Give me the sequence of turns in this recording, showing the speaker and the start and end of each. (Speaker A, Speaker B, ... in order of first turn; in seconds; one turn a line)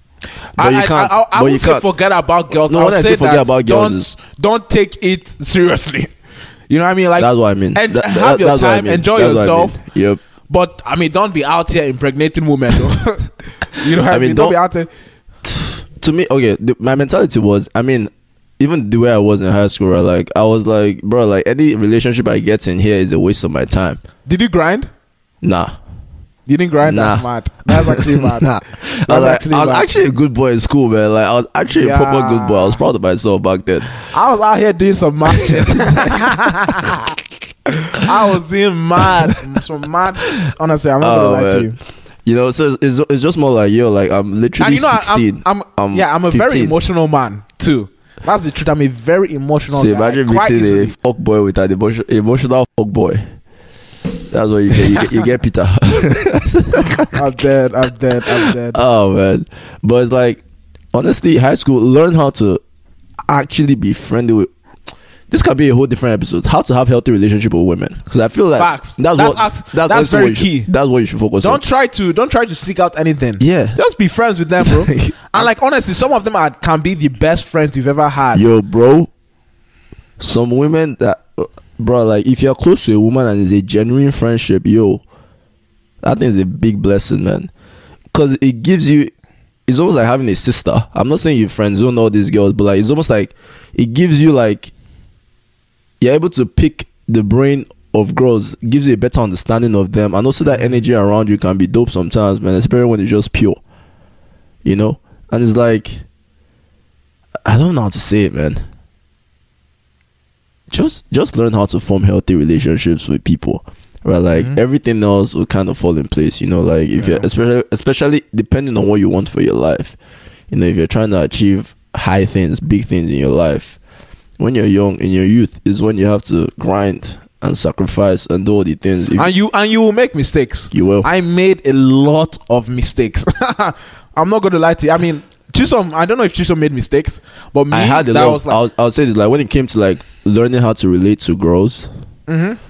Speaker A: 0.6-6.1
Speaker B: 0.6-1.9
Speaker B: 2.6-4.1
Speaker A: 6.7-9.8
Speaker B: 7.2-10.2
Speaker A: 10.5-14.9
Speaker B: 13.8-14.6
Speaker B: 15.4-24.0
Speaker A: 24.2-24.9
Speaker B: 25.4-25.7
Speaker A: 26.5-29.9
Speaker B: 26.8-34.0
Speaker A: 31.8-32.8
Speaker A: 34.0-41.8
Speaker B: 35.3-36.1
Speaker B: 41.0-41.7
Speaker B: 42.2-46.7
Speaker A: 44.6-50.9
Speaker B: 49.7-53.2
Speaker B: 54.3-57.2
Speaker A: 57.1-58.8
Speaker B: 58.2-60.4
Speaker B: 60.9-62.6
Speaker B: 63.3-64.5
Speaker B: 65.3-71.6
Speaker A: 68.6-70.7
Speaker A: 71.4-78.4
Speaker B: 73.4-73.8
Speaker B: 74.6-75.3
Speaker B: 78.3-79.1
Speaker B: 80.2-85.0
Speaker B: 86.0-87.5
Speaker B: 88.1-89.1
Speaker B: 89.7-94.7
Speaker B: 96.0-103.6
Speaker A: 100.5-100.8
Speaker B: 104.6-106.0
Speaker B: 107.4-108.6
Speaker B: 110.7-120.0
Speaker A: 117.0-117.2
Speaker B: 120.5-123.8
Speaker B: 124.4-129.3
Speaker A: 129.1-138.6
Speaker B: 130.7-131.1
Speaker B: 137.7-141.9
Speaker A: 142.3-142.6